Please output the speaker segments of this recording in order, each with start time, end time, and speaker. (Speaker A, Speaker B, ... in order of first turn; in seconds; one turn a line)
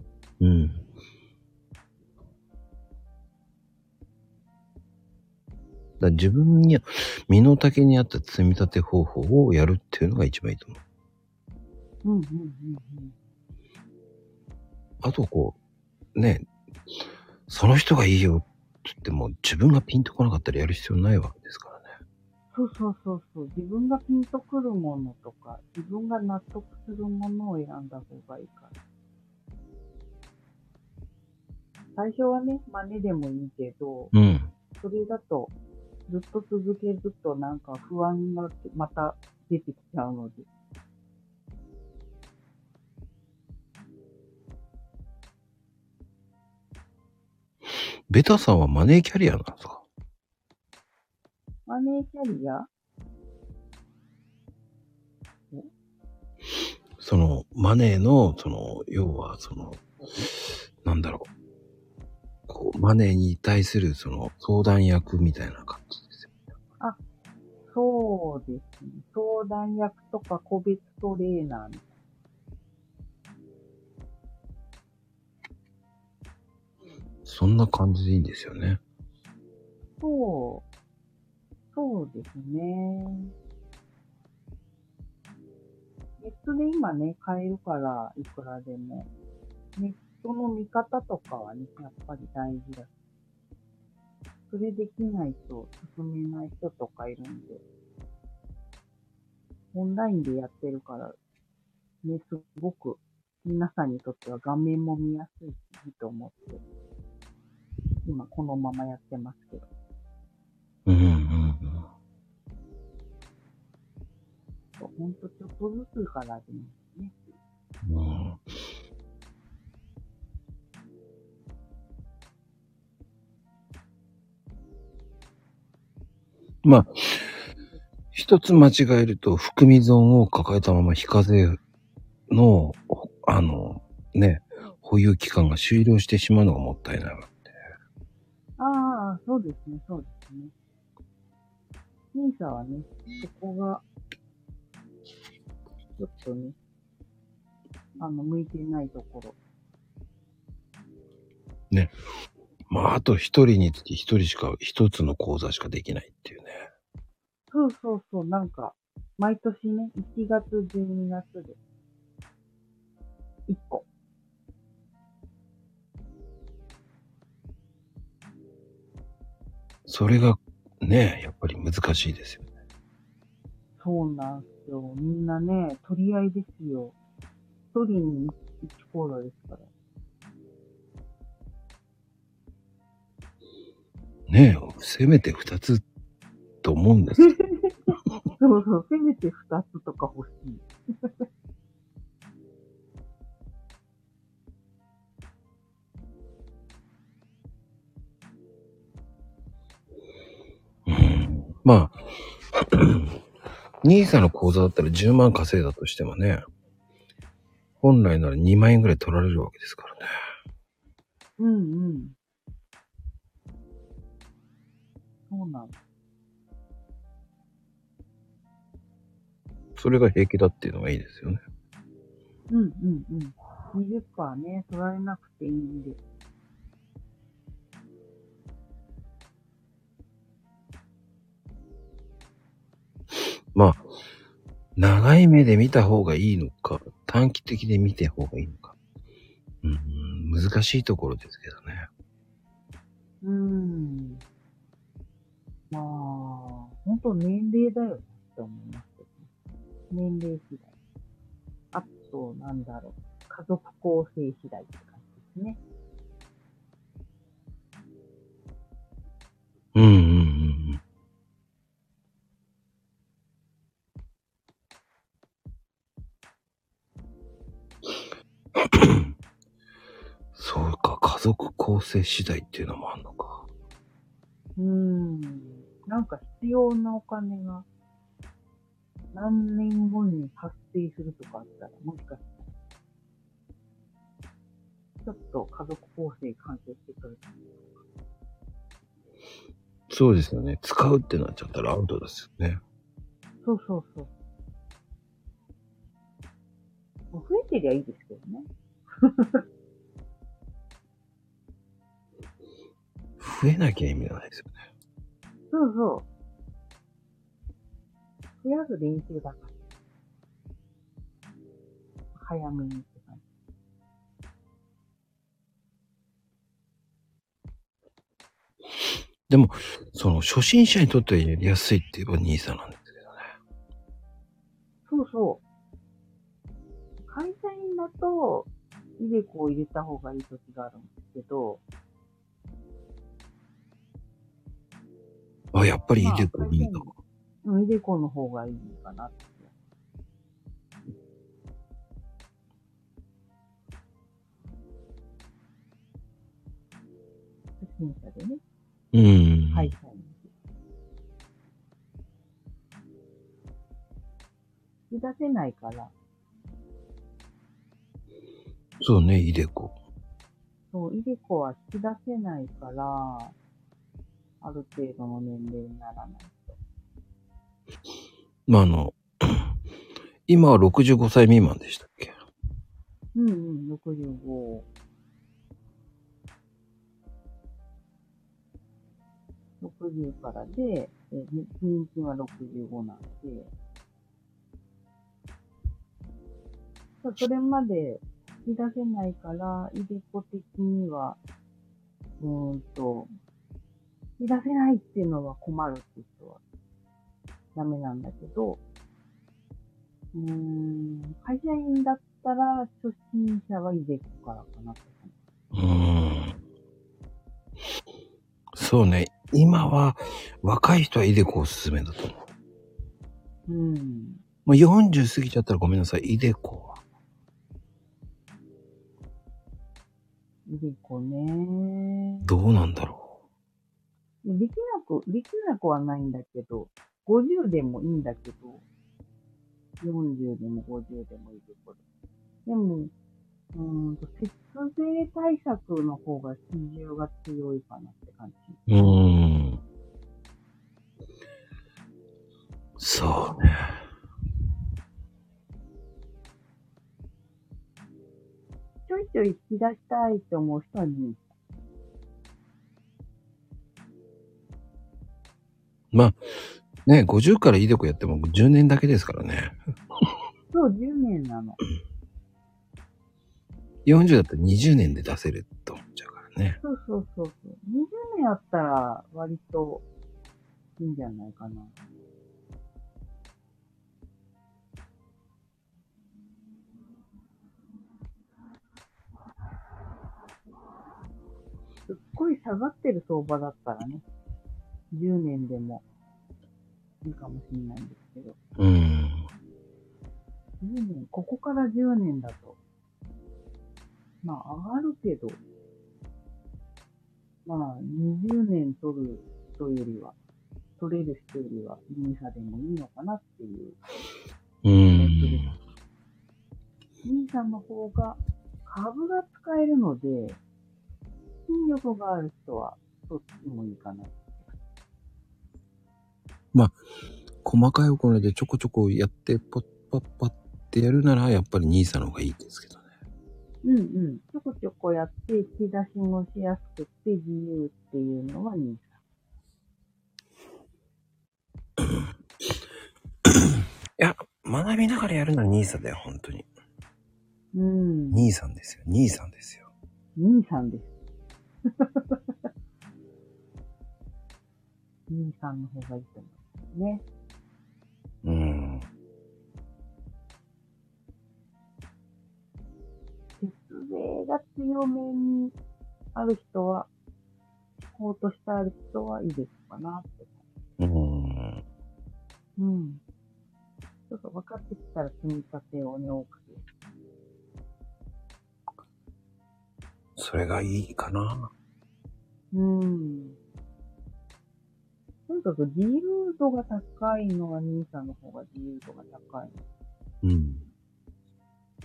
Speaker A: 0.4-0.8
Speaker A: 6.0-10.8
Speaker B: 12.0-13.2
Speaker A: 15.0-15.6
Speaker A: 16.1-16.4
Speaker A: 17.5-21.9
Speaker B: 22.5-28.8
Speaker B: 32.0-34.1
Speaker A: 34.1-34.5
Speaker B: 34.8-35.5
Speaker B: 36.1-40.5
Speaker A: 48.1-49.9
Speaker B: 51.7-52.7
Speaker A: 57.0-59.8
Speaker A: 60.4-61.3
Speaker A: 62.5-66.3
Speaker B: 67.7-72.0
Speaker A: 77.2-78.8
Speaker B: 80.0-80.7
Speaker B: 81.7-83.3
Speaker B: 86.2-89.1
Speaker B: 89.8-92.9
Speaker B: 94.5-97.6
Speaker B: 99.7-101.2
Speaker B: 102.0-106.6
Speaker B: 108.0-109.7
Speaker A: 110.9-111.9
Speaker B: 114.8-117.1
Speaker A: 117.8-118.4
Speaker A: 126.6-127.4
Speaker A: 128.1-131.6
Speaker A: 132.3-137.5
Speaker B: 138.6-140.5
Speaker B: 142.1-143.8
Speaker B: 146.0-146.6
Speaker B: 148.0-149.4
Speaker A: 152.7-156.7
Speaker B: 157.5-161.6
Speaker B: 163.5-163.9
Speaker A: 169.9-172.5
Speaker B: 173.8-176.9
Speaker B: 177.7-179.7
Speaker A: 184.3-185.8
Speaker A: 186.6-187.4
Speaker B: 187.2-187.7
Speaker B: 188.4-190.7
Speaker A: 200.9-202.0
Speaker A: 202.5-203.2
Speaker A: 203.8-206.4
Speaker A: 207.8-210.1
Speaker B: 211.4-212.2
Speaker B: 215.3-215.8
Speaker A: 219.8-221.4
Speaker B: 222.5-226.0
Speaker A: 233.5-233.8
Speaker A: 234.8-238.8
Speaker A: 239.6-241.9
Speaker B: 243.2-244.2
Speaker B: 245.7-249.3
Speaker B: 249.9-250.7
Speaker B: 251.7-255.6
Speaker A: 259.8-260.8
Speaker A: 268.6-269.1
Speaker A: 270.4-273.5
Speaker B: 274.6-277.7
Speaker B: 279.1-282.6
Speaker B: 285.1-287.8
Speaker A: 289.9-292.6
Speaker B: 293.4-294.1
Speaker B: 297.1-298.5
Speaker B: 299.0-299.4
Speaker A: 303.2-304.5
Speaker B: 305.5-306.1
Speaker B: 308.4-309.5
Speaker B: 312.2-313.2
Speaker A: 319.3-323.2
Speaker B: 324.9-325.4
Speaker B: 327.0-331.6
Speaker A: 335.5-336.9
Speaker B: 336.0-336.9
Speaker B: 337.4-339.5
Speaker B: 347.6-348.4
Speaker A: 348.9-349.7
Speaker B: 349.5-350.3
Speaker B: 354.9-355.9
Speaker A: 358.8-359.8
Speaker B: 360.7-363.4
Speaker B: 364.4-366.6
Speaker A: 368.5-369.5
Speaker A: 370.3-372.2
Speaker B: 373.1-374.7
Speaker B: 379.6-383.5
Speaker B: 387.0-391.2
Speaker B: 392.2-393.1
Speaker B: 394.2-396.4
Speaker B: 397.6-398.6
Speaker B: 400.1-405.1
Speaker A: 405.5-406.4
Speaker A: 408.5-412.2
Speaker B: 413.5-414.2
Speaker A: 414.5-416.8
Speaker B: 420.5-422.3
Speaker A: 422.2-423.1
Speaker B: 424.2-428.6
Speaker B: 429.8-431.8
Speaker B: 432.5-432.9
Speaker B: 433.5-438.9
Speaker A: 438.7-439.6
Speaker A: 442.8-443.8
Speaker B: 448.9-451.2
Speaker A: 455.9-456.2
Speaker A: 456.9-459.6
Speaker B: 460.5-461.6
Speaker A: 463.9-466.6
Speaker B: 466.6-469.9
Speaker B: 470.8-471.7
Speaker B: 481.9-484.0
Speaker B: 484.9-485.8
Speaker B: 487.0-488.4
Speaker A: 488.6-489.3
Speaker B: 490.6-492.6
Speaker B: 494.2-495.4
Speaker B: 497.4-500.2
Speaker B: 500.8-503.8
Speaker A: 504.6-505.5
Speaker B: 504.9-505.6
Speaker B: 507.0-510.4
Speaker B: 511.5-514.5
Speaker A: 517.4-522.8
Speaker B: 523.6-529.0
Speaker A: 534.0-536.5
Speaker B: 537.5-538.3
Speaker A: 538.1-539.7
Speaker B: 540.2-540.9
Speaker B: 541.8-542.2
Speaker B: 545.1-547.0
Speaker A: 548.2-548.9
Speaker B: 553.4-555.5
Speaker B: 556.1-556.9
Speaker B: 557.8-560.4
Speaker A: 560.8-561.6
Speaker B: 562.6-563.0
Speaker B: 564.1-566.6
Speaker A: 570.2-571.5
Speaker B: 572.5-573.4
Speaker B: 575.3-579.6
Speaker A: 580.2-580.7